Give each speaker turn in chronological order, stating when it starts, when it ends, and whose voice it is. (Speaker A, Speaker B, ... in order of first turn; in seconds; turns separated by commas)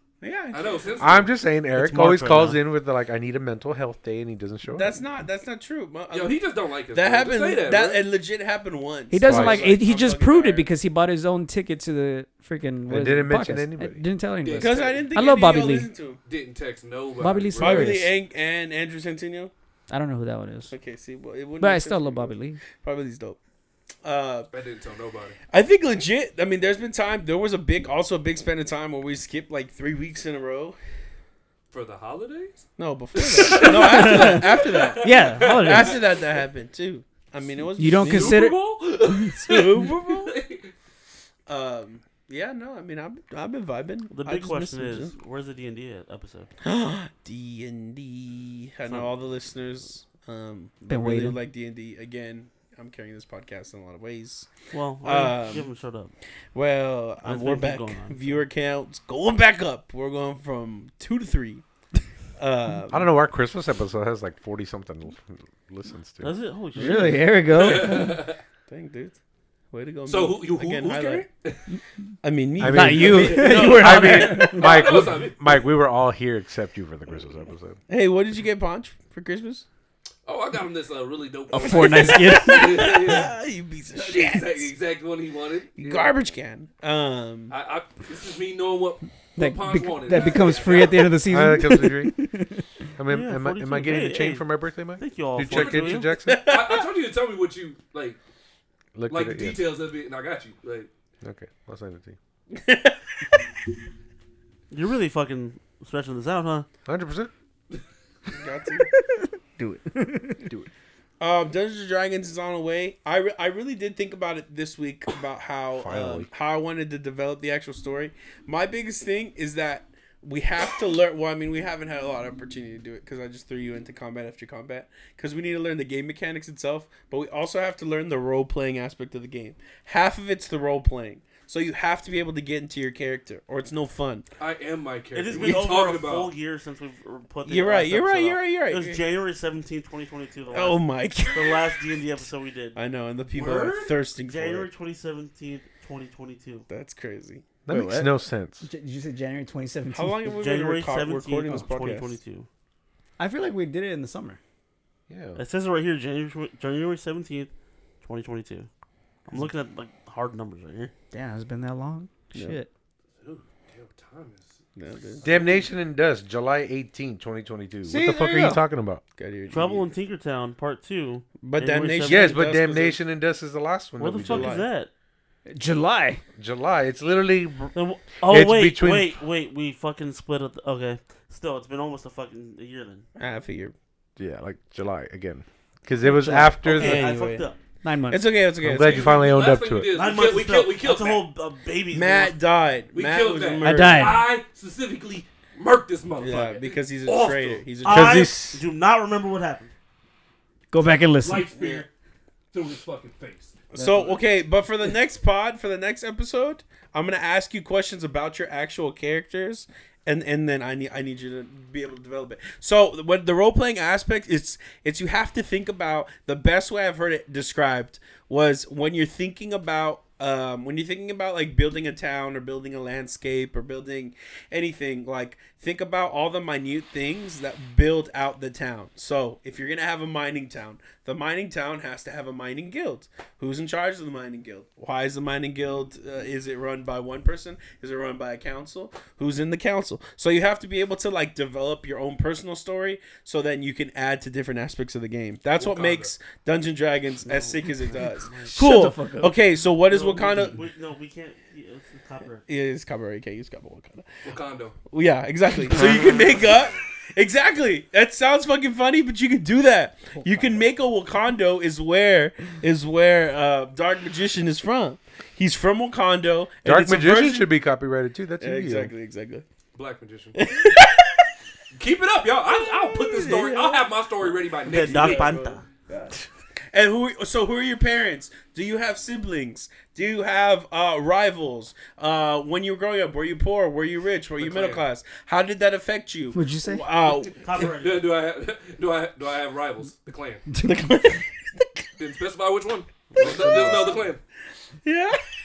Speaker A: 0.2-1.0, Speaker B: 0.5-1.3, Speaker C: 1.0-4.9, Speaker D: 1.7-2.6, Speaker A: 4.7-10.7, Speaker B: 6.1-8.0, Speaker E: 9.1-15.9, Speaker C: 9.2-9.7, Speaker C: 12.9-14.0, Speaker B: 14.4-15.1, Speaker A: 14.6-16.2, Speaker B: 16.3-18.0, Speaker E: 17.2-18.1, Speaker A: 17.6-19.5, Speaker E: 19.9-20.7, Speaker A: 20.7-23.4, Speaker E: 21.6-22.6, Speaker A: 24.0-24.5, Speaker B: 24.5-25.4, Speaker A: 25.5-30.8, Speaker B: 31.7-36.3, Speaker A: 32.8-38.4, Speaker E: 33.5-36.0, Speaker E: 37.8-39.4, Speaker B: 37.9-40.7, Speaker A: 39.4-40.3, Speaker A: 41.5-45.1, Speaker D: 44.1-46.5, Speaker A: 46.6-54.5, Speaker D: 48.9-49.1, Speaker E: 50.9-51.4, Speaker D: 54.7-56.1, Speaker A: 55.0-55.7, Speaker A: 56.5-61.6, Speaker D: 57.2-58.4, Speaker A: 62.4-63.1, Speaker C: 62.9-66.3, Speaker D: 66.2-67.4, Speaker E: 66.8-68.2, Speaker B: 67.5-68.4, Speaker A: 68.7-69.2, Speaker A: 69.7-71.3, Speaker B: 70.1-71.6, Speaker A: 72.2-74.8, Speaker C: 72.6-77.8, Speaker E: 72.6-74.7, Speaker B: 73.8-75.5, Speaker A: 77.9-79.6, Speaker B: 80.2-83.4, Speaker E: 81.5-82.9, Speaker A: 81.6-84.7, Speaker B: 83.9-86.0, Speaker A: 85.8-87.5, Speaker B: 87.5-91.2, Speaker E: 89.3-92.7, Speaker C: 91.2-92.1, Speaker C: 93.0-96.5, Speaker D: 93.1-96.2, Speaker B: 95.5-98.2, Speaker A: 96.2-96.9, Speaker C: 98.9-99.6, Speaker B: 99.1-100.9, Speaker C: 101.2-102.2, Speaker A: 102.5-103.0, Speaker D: 104.7-106.7, Speaker C: 106.8-107.3, Speaker A: 108.3-108.9, Speaker E: 108.9-110.7, Speaker A: 111.2-134.2, Speaker C: 115.8-116.3, Speaker B: 134.4-136.3, Speaker D: 135.1-142.8, Speaker A: 137.5-139.0, Speaker A: 140.5-141.8, Speaker A: 142.7-144.7, Speaker B: 143.3-144.0, Speaker D: 144.3-146.7, Speaker A: 146.7-147.5, Speaker C: 147.7-148.6, Speaker E: 147.7-150.3, Speaker A: 149.9-152.1, Speaker D: 150.3-152.5, Speaker E: 153.2-154.4, Speaker C: 155.1-155.4, Speaker D: 155.4-157.5, Speaker D: 158.0-158.7, Speaker D: 159.3-160.9, Speaker E: 161.1-162.7, Speaker B: 163.2-164.6, Speaker A: 164.8-165.5, Speaker C: 165.2-169.0, Speaker E: 167.8-168.6, Speaker A: 169.2-169.9, Speaker D: 169.5-172.4, Speaker A: 171.4-173.0, Speaker C: 172.0-174.6, Speaker D: 174.0-174.9, Speaker A: 174.3-174.6, Speaker E: 175.5-176.2, Speaker C: 176.4-177.7, Speaker D: 177.7-183.1, Speaker C: 178.2-179.1, Speaker A: 183.2-183.7, Speaker C: 184.2-187.1, Speaker E: 186.0-186.5, Speaker A: 186.6-187.4, Speaker D: 186.6-187.6, Speaker E: 187.8-188.3, Speaker A: 188.1-189.4, Speaker C: 188.6-190.0, Speaker B: 188.8-191.2, Speaker D: 189.9-192.4, Speaker A: 191.9-194.1, Speaker B: 192.9-197.7, Speaker E: 193.6-194.2, Speaker A: 196.2-198.3, Speaker D: 197.8-199.7, Speaker C: 197.8-198.6, Speaker E: 200.7-201.5, Speaker B: 201.2-201.9, Speaker B: 202.5-203.6, Speaker A: 203.7-250.6, Speaker E: 203.8-204.1, Speaker B: 245.6-246.1, Speaker D: 247.2-248.6, Speaker E: 248.5-249.3, Speaker D: 249.8-252.4, Speaker A: 252.5-254.1, Speaker B: 254.2-254.8, Speaker A: 254.9-267.5, Speaker D: 255.8-256.2, Speaker C: 266.6-268.9, Speaker A: 268.4-269.4, Speaker B: 269.7-270.4, Speaker A: 270.3-271.2, Speaker B: 271.7-275.4, Speaker A: 272.5-287.6, Speaker D: 274.6-275.6, Speaker B: 284.4-284.9, Speaker E: 286.3-286.8, Speaker B: 287.2-290.5, Speaker D: 287.4-288.1, Speaker E: 290.5-291.2, Speaker A: 290.6-291.2, Speaker B: 292.0-294.2, Speaker D: 293.1-294.0, Speaker A: 293.2-294.0, Speaker A: 294.8-295.2